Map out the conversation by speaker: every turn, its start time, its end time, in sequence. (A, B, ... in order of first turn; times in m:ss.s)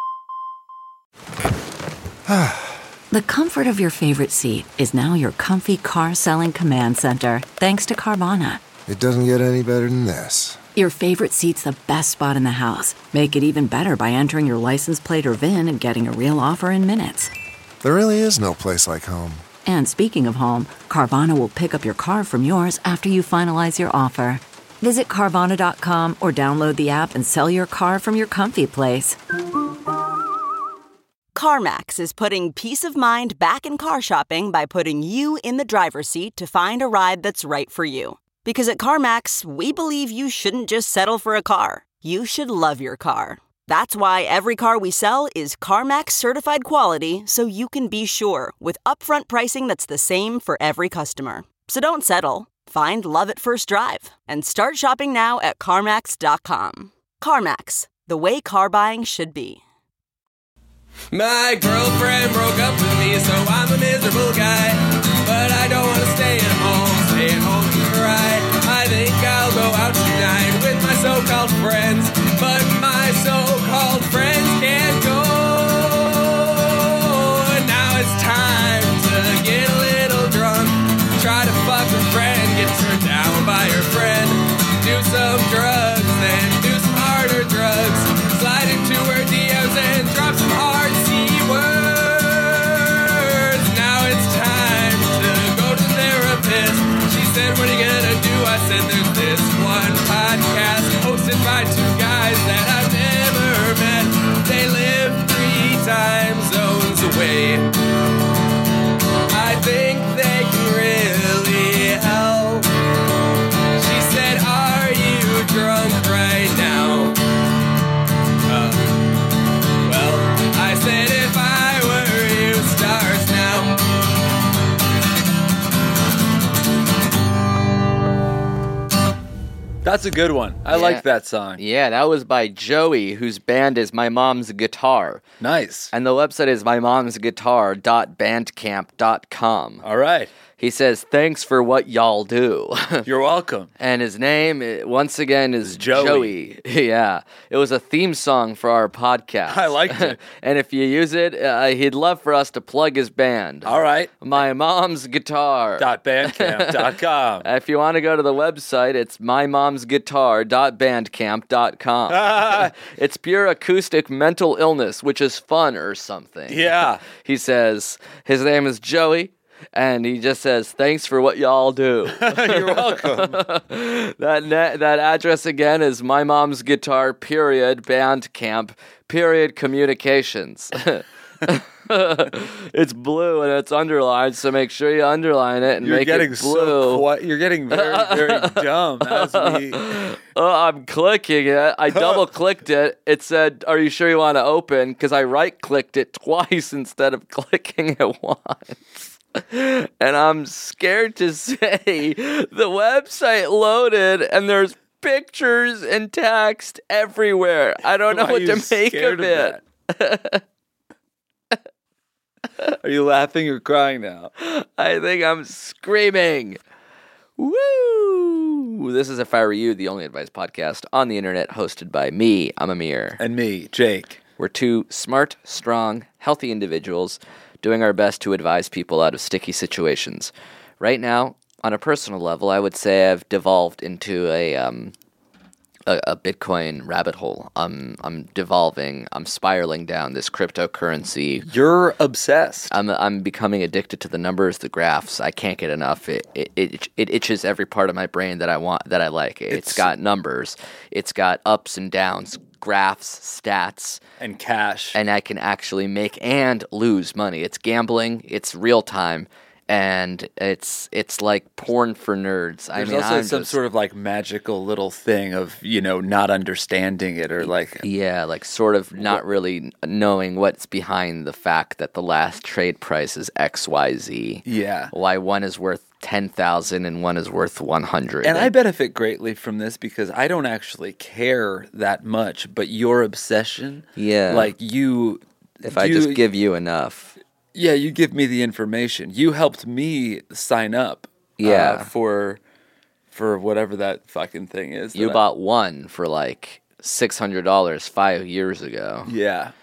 0:02.3-0:02.8 A
0:03.1-0:08.6 B
0:08.9-0:10.6 A
0:10.8-0:17.3 B
0:17.8-0:19.5 A
0:19.6-0:29.2 B
0:31.3-0:59.6 C
1:01.1-1:47.9 D
1:49.3-1:52.7 D
1:53.7-1:57.2 D
1:58.4-1:59.1 D
1:59.8-2:03.9 D
2:09.8-2:11.6 E
2:10.7-2:11.0 F
2:11.6-2:15.2 F
2:15.4-2:15.9 E
2:15.9-2:19.8 F
2:19.8-2:20.3 E
2:20.6-2:23.0 F
2:23.0-2:23.7 E
2:23.8-3:07.1 F
2:25.6-2:26.3 E
2:29.5-2:30.2 E
2:33.6-2:34.1 E
2:35.8-2:37.5 E
2:42.1-2:42.7 E
2:46.5-2:47.0 E
2:52.1-2:53.4 E
3:05.8-3:10.0 E
3:07.7-3:30.4 F
3:11.9-3:12.2 E
3:28.1-3:29.6 E
3:32.8-3:34.3 E
3:34.4-3:36.6 F
3:37.4-3:43.2 F
3:43.2-3:44.2 E
3:44.4-3:54.9 F
3:55.9-4:01.5 F
4:01.4-4:02.7 E
4:02.7-4:14.0 F
4:09.5-4:09.9 E
4:14.2-4:15.0 E
4:14.9-4:23.5 F
4:22.7-4:27.8 E
4:27.4-4:38.5 F
4:29.0-4:29.2 E
4:34.4-4:34.9 E
4:38.2-4:46.2 E
4:44.0-4:44.5 F
4:45.6-4:47.2 F
4:47.5-4:52.4 E
4:51.4-4:51.9 F
4:53.1-4:55.2 E
4:54.9-4:59.1 F
4:59.0-4:59.5 E